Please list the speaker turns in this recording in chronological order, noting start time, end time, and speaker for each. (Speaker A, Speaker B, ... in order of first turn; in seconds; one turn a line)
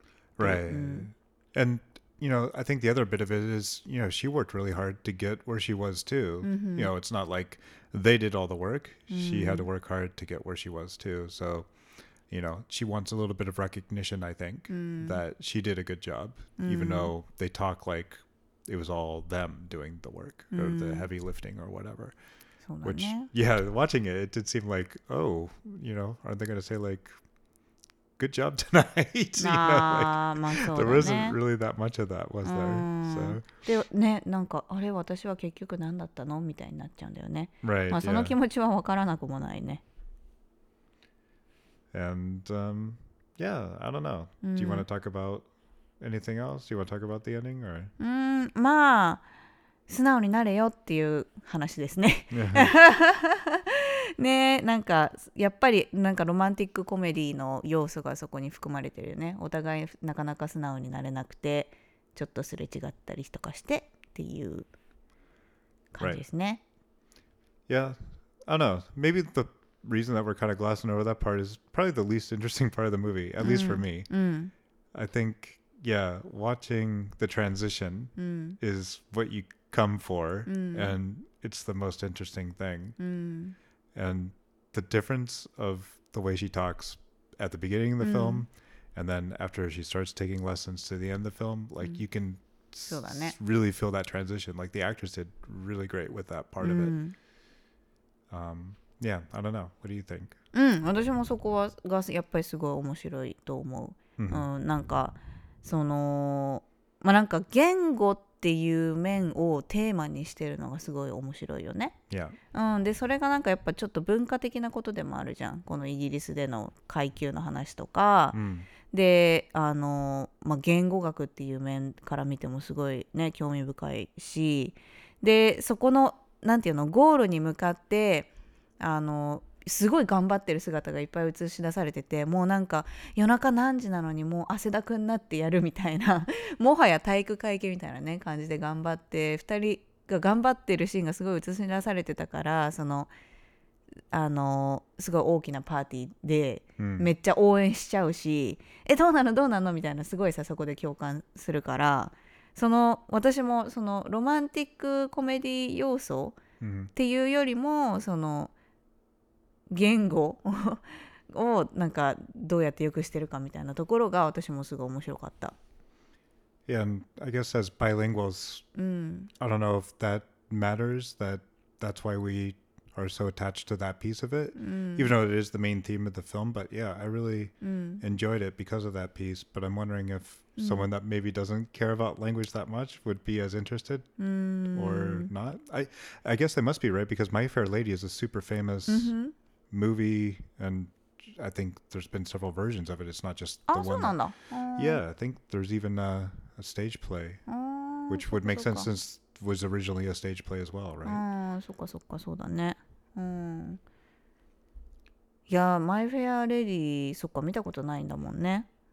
Speaker A: 0.4-11.7
Speaker B: 0.4-1.1
Speaker B: 6.4-6.9
Speaker B: 9.1-9.7
Speaker A: 12.3-22.2
Speaker B: 14.7-15.2
Speaker B: 16.6-17.1
Speaker B: 20.5-21.1
Speaker B: 22.7-23.3
Speaker A: 22.8-27.2
Speaker A: 28.2-33.5
Speaker B: 29.4-31.4
Speaker B: 32.4-39.8
Speaker A: 37.6-38.4
Speaker A: 41.9-45.5
Speaker B: 44.4-44.9
Speaker A: 46.0-47.9
Speaker B: 48.0-49.2
Speaker B: 49.9-64.7
Speaker A: 52.3-52.7
Speaker B: 65.9-66.6
Speaker A: 67.7-74.1
Speaker B: 73.4-74.5
Speaker A: 74.9-83.0
Speaker B: 78.2-78.6
Speaker B: 80.5-80.9
Speaker B: 83.0-83.6
Speaker A: 84.0-97.0
Speaker B: 88.0-88.4
Speaker B: 92.9-93.4
Speaker B: 96.6-97.2
Speaker A: 98.3-100.3
Speaker B: 100.5-112.0
Speaker A: 104.2-104.4
Speaker A: 112.1-112.4
Speaker B: 112.5-118.4
Speaker A: 118.3-118.7
Speaker B: 118.9-143.1
Speaker B: 144.1-156.4
Speaker A: 146.8-147.1
Speaker A: 156.6-156.9
Speaker B: 156.9-158.5
Speaker B: 159.7-165.6
Speaker A: 166.7-168.7
Speaker B: 168.8-169.3
Speaker A: 169.4-184.1
Speaker B: 174.6-175.1
Speaker B: 177.6-178.0
Speaker B: 180.6-180.9
Speaker B: 184.2-185.3
Speaker A: 184.7-189.1
Speaker B: 188.9-189.3
Speaker A: 189.7-194.2
Speaker B: 193.7-195.0
Speaker A: 194.8-197.4
Speaker B: 197.5-198.9
Speaker A: 198.1-201.2
Speaker B: 201.1-203.8
Speaker B: 205.5-208.7